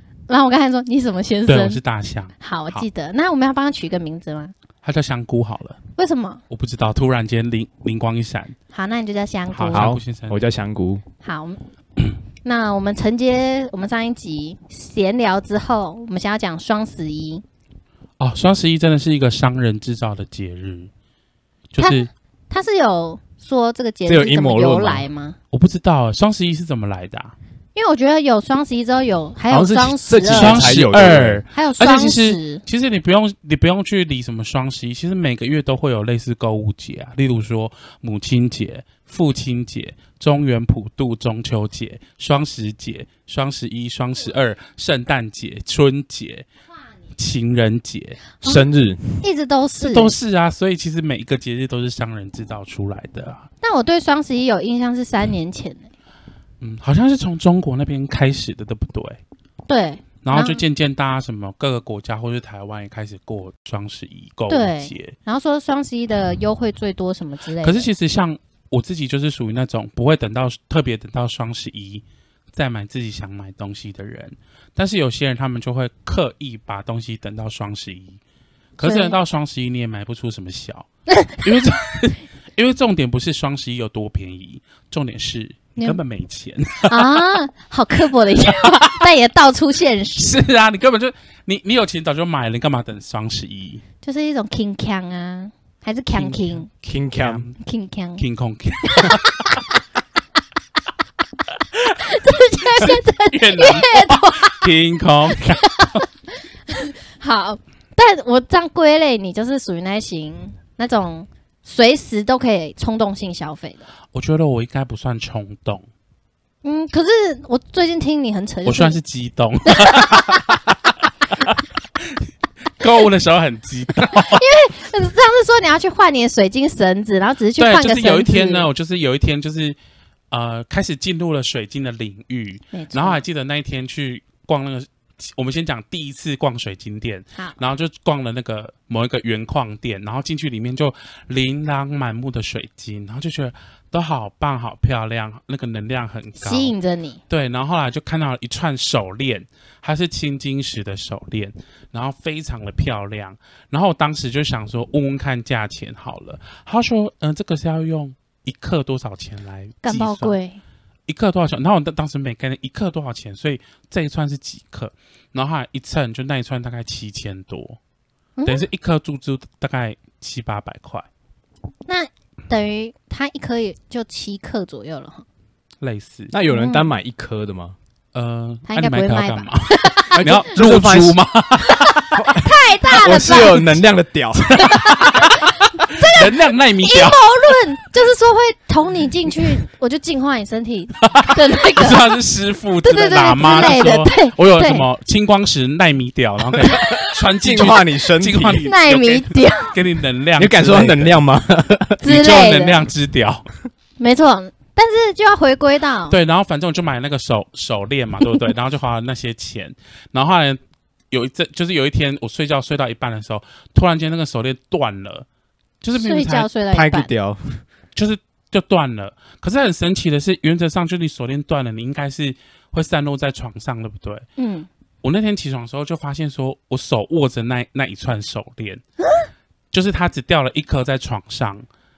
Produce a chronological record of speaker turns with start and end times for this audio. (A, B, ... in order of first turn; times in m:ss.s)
0:00.3-0:01.8 A
0:01.5-0:02.8 B
0:02.4-0:04.5 A
0:04.8-0:05.8 B
0:06.0-0:06.4 A
0:06.5-0:08.6 B
0:08.7-0:09.9 A
0:09.5-0:10.4 B
0:09.7-0:11.0 C
0:11.2-0:11.6 A
0:12.4-0:17.4 A
0:18.2-0:20.9 B
0:21.7-0:22.1 B
0:21.8-0:25.4 A
0:24.1-0:25.1 C
0:25.5-0:27.4 B
0:27.8-0:30.8 A
0:29.5-0:31.4 C
0:30.2-0:46.5 B
0:31.5-0:32.6 A
0:47.2-0:48.4 B
0:48.4-0:49.2 C
0:49.2-0:50.2 A
0:49.8-0:53.4 B
0:53.6-0:55.9 A
0:56.6-0:59.2 B
0:59.7-1:00.6 A
1:00.2-1:05.1 B
1:04.5-1:07.9 A
1:07.6-1:18.2 B
1:18.8-1:20.9 B
1:18.8-1:19.2 A
1:21.1-1:21.4 A
1:21.4-1:27.3 B
1:26.8-1:30.4 A
1:28.5-1:29.1 B
1:30.2-1:33.8 B
1:34.0-1:36.7 A
1:36.2-1:37.6 B
1:36.9-1:37.5 C
1:37.6-1:38.2 A
1:38.2-1:39.3 B
1:38.8-1:39.7 A
1:42.0-1:44.7 A
1:42.8-1:46.0 B
1:45.3-1:46.1 A
1:46.7-1:53.9 A
1:54.1-1:55.8 B
1:56.6-1:59.0 A
1:58.6-2:00.4 B
1:59.7-2:00.4 A
2:02.8-2:04.5 B
2:04.1-2:08.7 A
2:07.6-2:09.8 B
2:10.3-2:26.7 B
2:12.7-2:13.2 A
2:26.4-2:27.2 A
2:27.3-2:40.4 B
2:39.8-2:40.6 A
2:41.1-2:47.8 B
2:48.4-2:48.7 A
2:48.4-2:51.1 B
2:51.9-2:55.3 A
2:55.8-2:56.3 B
2:56.3-2:57.8 C
2:56.5-2:56.9 A
2:58.1-3:02.1 B
2:58.7-3:00.2 A
3:00.2-3:01.2 C
3:01.7-3:03.8 A
3:02.1-3:05.2 C
3:04.6-3:12.2 A
3:04.6-3:07.2 B
3:11.0-3:21.2 B
3:12.8-3:14.9 A
3:16.7-3:17.1 A
3:17.4-3:18.7 C
3:18.6-3:19.8 A
3:20.4-3:22.0 C
3:22.0-3:22.8 A
3:22.0-3:23.5 B
3:24.0-3:26.2 A
3:26.1-3:30.6 B
3:31.1-3:35.3 B
3:35.8-3:36.5 B
3:36.0-3:37.1 A
3:36.7-3:37.6 C
3:38.0-3:44.2 B
3:44.4-3:44.7 A
3:45.0-3:48.8 B
3:49.7-3:51.7 B